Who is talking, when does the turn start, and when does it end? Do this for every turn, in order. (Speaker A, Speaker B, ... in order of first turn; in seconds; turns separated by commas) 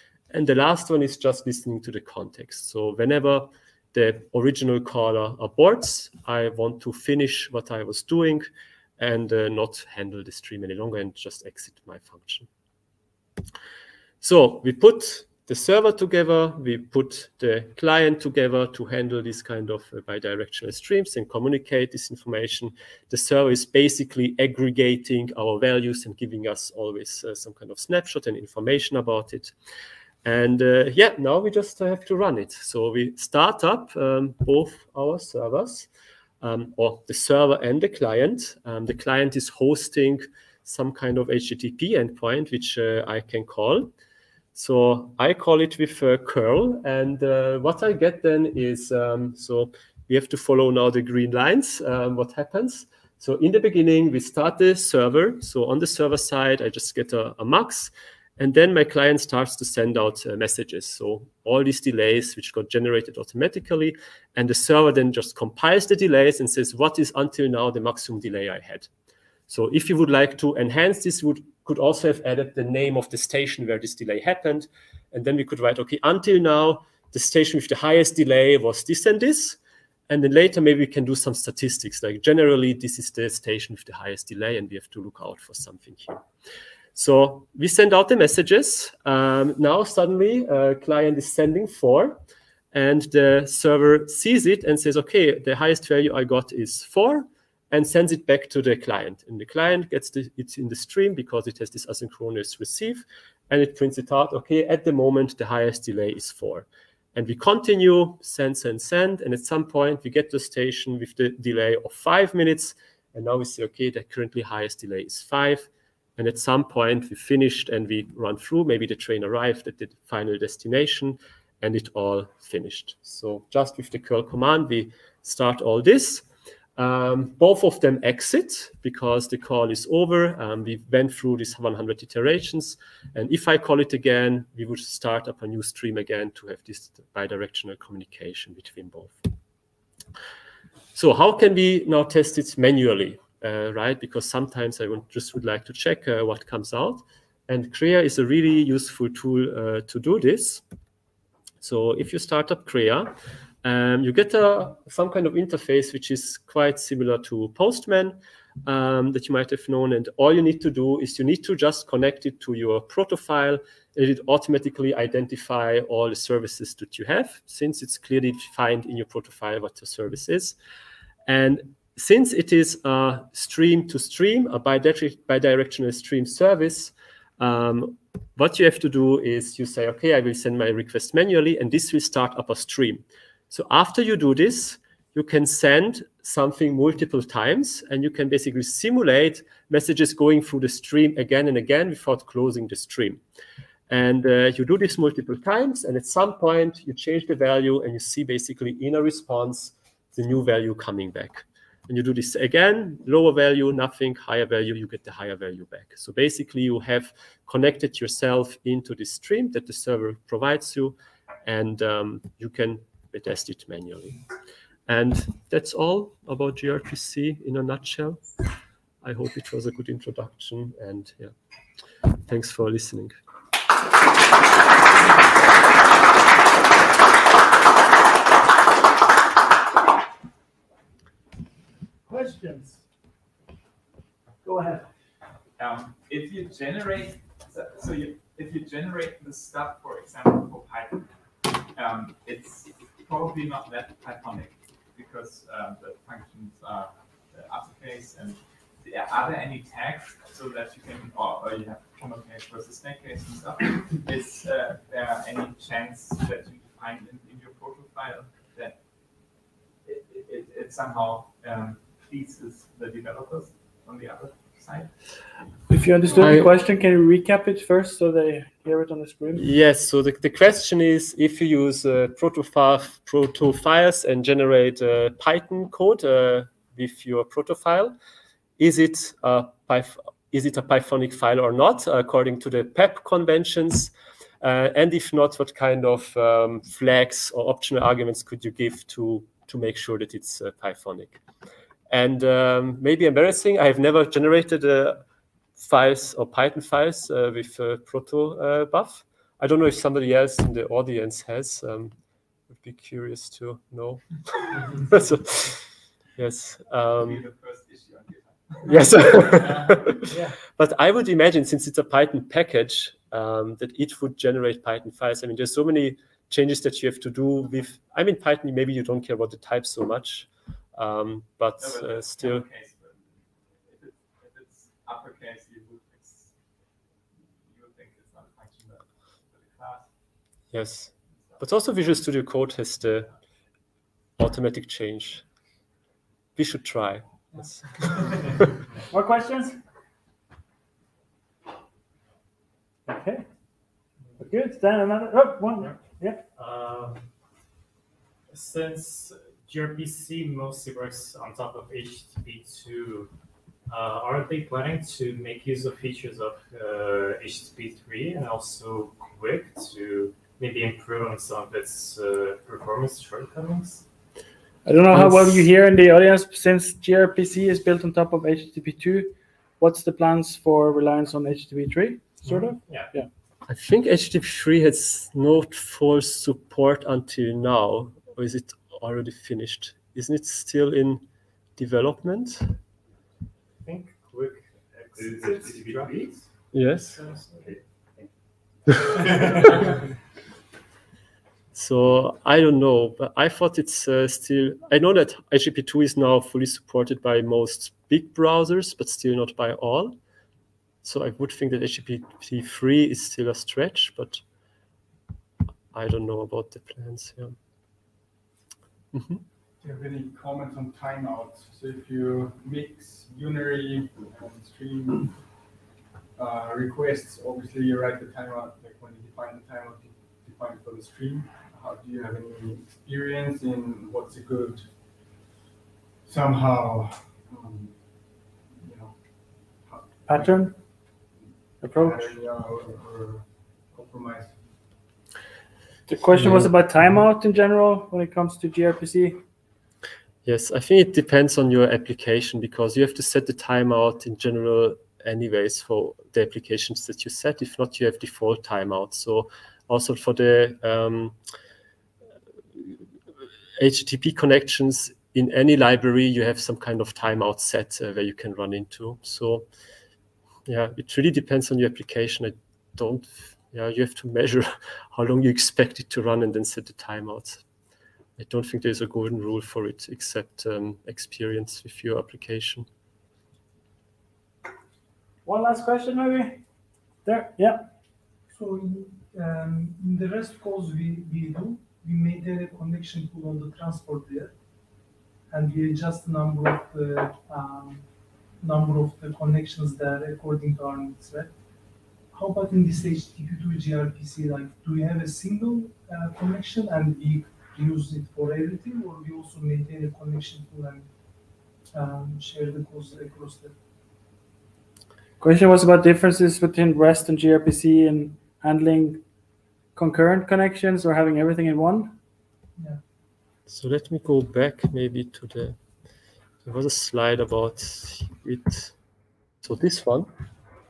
Speaker A: 0.3-12.5, Speaker A: 14.2-29.5, Speaker A: 30.2-35.9, Speaker A: 36.4-43.9, Speaker A: 44.5-68.9, Speaker A: 69.5-79.6, Speaker A: 80.1-86.2, Speaker A: 87.0-92.2, Speaker A: 92.7-126.3, Speaker A: 126.8-139.3, Speaker A: 140.9-150.6, Speaker A: 151.6-153.1, Speaker A: 153.6-170.6, Speaker A: 171.3-193.2, Speaker A: 193.9-214.2, Speaker A: 214.9-218.4, Speaker A: 219.0-221.3, Speaker A: 222.2-223.2, Speaker B: 232.1-232.8, Speaker B: 234.4-234.9, Speaker C: 235.6-241.1, Speaker C: 241.6-258.8, Speaker C: 259.9-264.9, Speaker B: 265.7-269.5, Speaker A: 266.2-266.5, Speaker A: 269.4-277.9, Speaker A: 278.6-291.2, Speaker A: 291.9-295.0, Speaker A: 295.6-301.9, Speaker A: 302.5-307.2, Speaker C: 306.9-310.0, Speaker A: 308.7-322.4, Speaker C: 321.6-326.4, Speaker C: 327.2-329.9, Speaker A: 330.5-333.1, Speaker A: 334.2-335.2, Speaker A: 336.4-338.4, Speaker B: 338.9-339.6, Speaker B: 342.9-343.3, Speaker B: 344.2-346.2, Speaker D: 346.4-347.0, Speaker D: 348.3-353.1, Speaker D: 353.7-363.9, Speaker B: 364.6-373.1, Speaker A: 364.9-365.3, Speaker D: 372.2-372.9, Speaker A: 373.5-381.0, Speaker A: 381.6-382.6, Speaker D: 383.6-386.3, Speaker A: 386.5-387.1, Speaker D: 386.9-388.1, Speaker D: 388.7-389.8, Speaker A: 391.5-400.0, Speaker A: 400.8-404.2, Speaker A: 405.7-407.4, Speaker A: 408.9-409.2, Speaker E: 409.6-415.2, Speaker E: 416.2-424.7, Speaker E: 426.1-427.8, Speaker E: 428.6-428.9, Speaker E: 429.7-430.5, Speaker B: 430.1-430.6, Speaker B: 431.6-432.1, Speaker E: 431.6-434.4, Speaker B: 435.9-439.2, Speaker A: 436.2-436.5, Speaker A: 440.2-451.2, Speaker A: 453.6-459.5, Speaker A: 460.5-467.4, Speaker A: 468.2-472.7, Speaker B: 475.2-476.4, Speaker B: 477.1-477.7, Speaker F: 478.3-484.3, Speaker F: 485.3-487.9, Speaker F: 488.4-491.4, Speaker F: 492.1-500.9, Speaker F: 501.7-503.6, Speaker B: 505.2-509.0, Speaker B: 509.8-511.9, Speaker A: 513.5-515.6, Speaker A: 516.5-518.8, Speaker A: 519.4-520.1